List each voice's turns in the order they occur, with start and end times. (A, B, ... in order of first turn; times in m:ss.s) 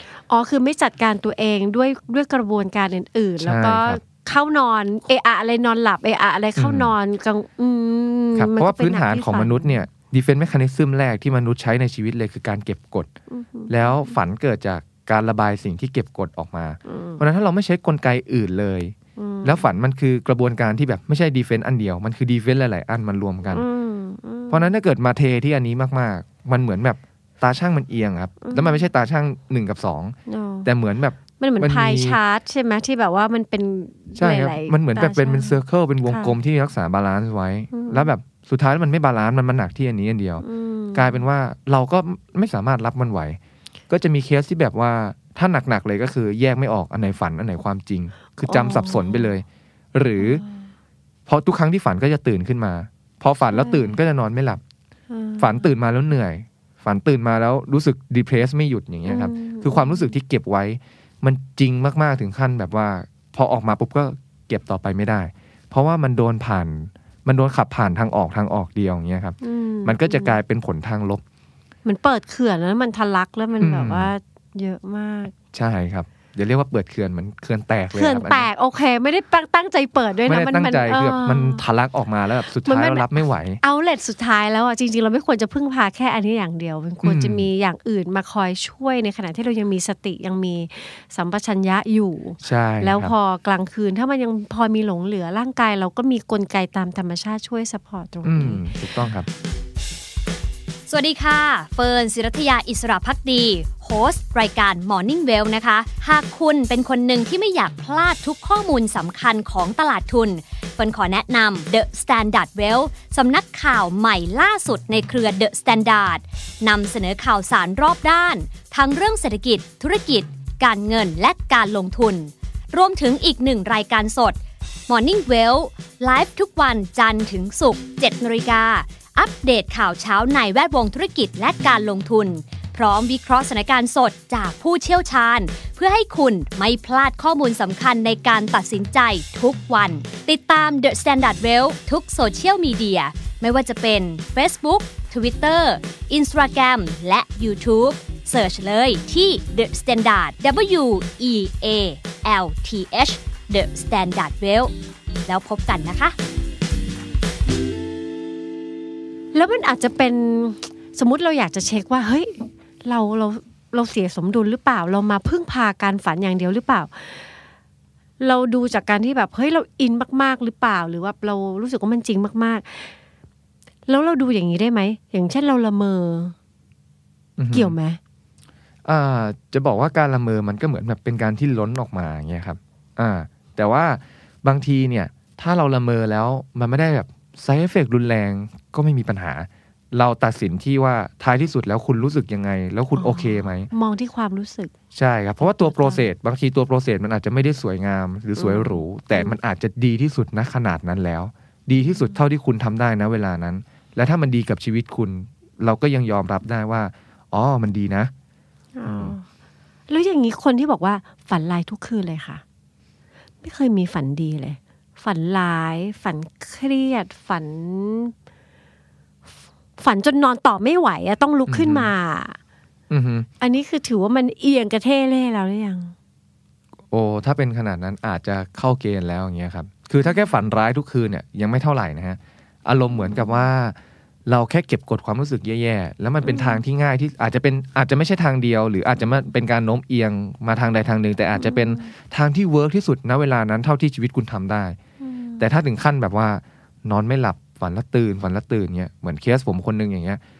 0:00.3-0:09.8 A
0:03.4-0:04.0 B
0:06.6-0:06.9 B
0:08.3-0:13.1 B
0:13.3-0:14.2 A
0:13.7-0:23.6 B
0:16.9-0:17.2 A
0:19.2-0:19.7 A
0:23.5-0:24.7 A
0:24.5-0:32.2 B
0:28.4-0:28.8 A
0:30.3-0:30.7 A
0:31.4-0:36.4 A
0:34.2-0:43.4 B
0:37.7-0:38.1 A
0:40.4-0:41.2 A
0:43.9-0:50.4 B
0:48.5-0:49.3 A
0:50.2-0:50.6 A
0:51.3-0:54.6 B
0:53.5-0:54.0 A
0:55.1-0:55.7 A
0:55.4-1:11.2 B
0:59.0-1:00.2 A
1:09.4-1:10.4 A
1:11.8-1:15.3 A
1:13.6-1:14.1 B
1:15.5-1:18.5 B
1:17.9-1:21.6 A
1:20.2-1:23.6 B
1:22.4-1:38.6 A
1:27.0-1:27.5 B
1:32.4-1:33.1 B
1:38.2-1:39.3 B
1:40.9-2:04.4 C
2:04.9-2:34.7 C
2:35.2-2:36.1 C
2:39.3-2:47.3 A
2:48.2-2:52.9 A
2:53.9-2:56.3 A
2:57.4-2:57.7 B
2:57.5-2:58.0 A
2:58.8-3:13.7 B
3:12.9-3:14.7 A
3:14.9-3:28.1 B
3:15.4-3:16.1 A
3:18.4-3:19.4 A
3:21.7-3:22.2 A
3:28.8-3:29.2 A
3:28.9-3:29.1 B
3:29.9-3:32.4 A
3:33.4-3:38.1 A
3:39.8-3:42.4 A
3:41.5-3:41.9 B
3:42.9-3:43.3 B
3:43.4-3:45.9 A
3:46.9-4:04.8 B
3:50.0-3:50.3 A
3:52.9-3:53.4 A
3:56.2-3:56.6 A
4:01.3-4:01.9 A
4:05.0-4:05.4 A
4:05.4-4:10.2 B